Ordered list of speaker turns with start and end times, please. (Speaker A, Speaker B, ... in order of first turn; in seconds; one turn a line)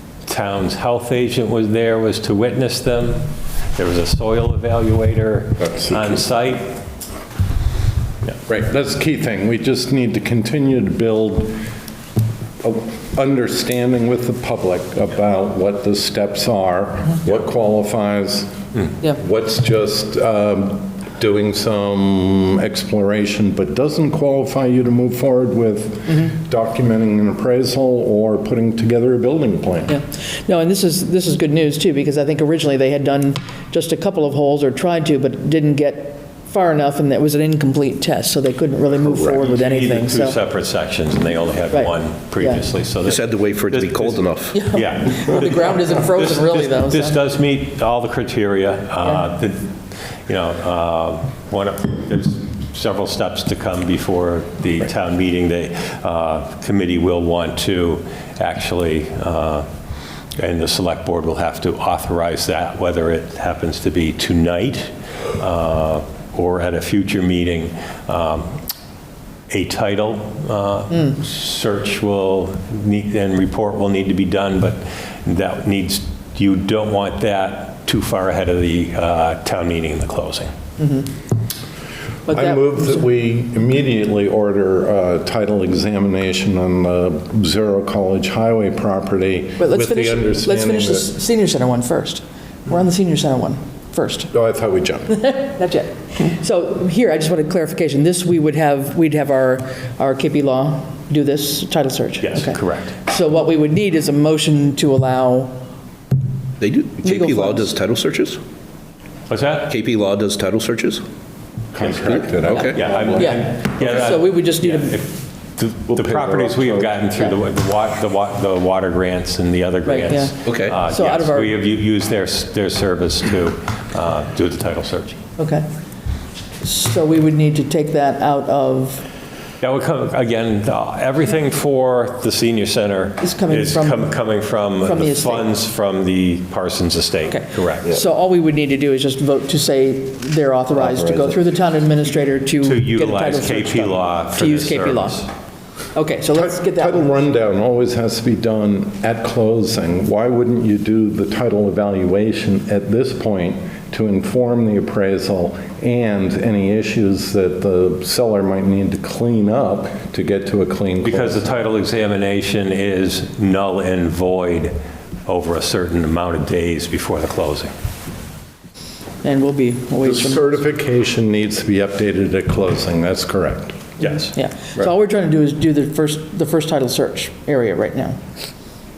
Speaker A: 0.3-6.8
Speaker B: 5.6-6.2
Speaker B: 8.5-11.6
Speaker B: 12.6-30.0
Speaker C: 29.9-40.4
Speaker B: 39.0-39.4
Speaker A: 39.4-49.7
Speaker C: 41.7-42.6
Speaker D: 43.0-44.6
Speaker C: 44.5-47.2
Speaker A: 50.3-59.7
Speaker A: 60.4-68.6
Speaker A: 69.5-80.5
Speaker C: 80.8-81.1
Speaker C: 82.3-83.1
Speaker B: 82.3-91.1
Speaker C: 89.6-94.3
Speaker B: 94.3-95.3
Speaker C: 95.1-105.6
Speaker A: 102.2-103.0
Speaker D: 106.6-108.4
Speaker C: 107.0-107.7
Speaker A: 109.3-109.7
Speaker D: 109.7-111.0
Speaker B: 111.7-113.9
Speaker D: 111.8-112.9
Speaker A: 112.6-125.2
Speaker C: 113.1-115.0
Speaker B: 115.9-117.0
Speaker C: 119.8-121.5
Speaker D: 120.5-120.8
Speaker C: 125.4-125.7
Speaker C: 126.6-129.1
Speaker A: 129.6-137.9
Speaker C: 133.2-134.2
Speaker C: 134.8-135.5
Speaker C: 137.3-145.3
Speaker B: 140.8-141.3
Speaker A: 142.6-145.3
Speaker C: 145.9-147.2
Speaker B: 146.4-161.5
Speaker A: 161.0-164.7
Speaker A: 165.3-167.7
Speaker C: 169.2-170.6
Speaker B: 170.0-173.8
Speaker A: 174.0-174.3
Speaker C: 174.2-178.2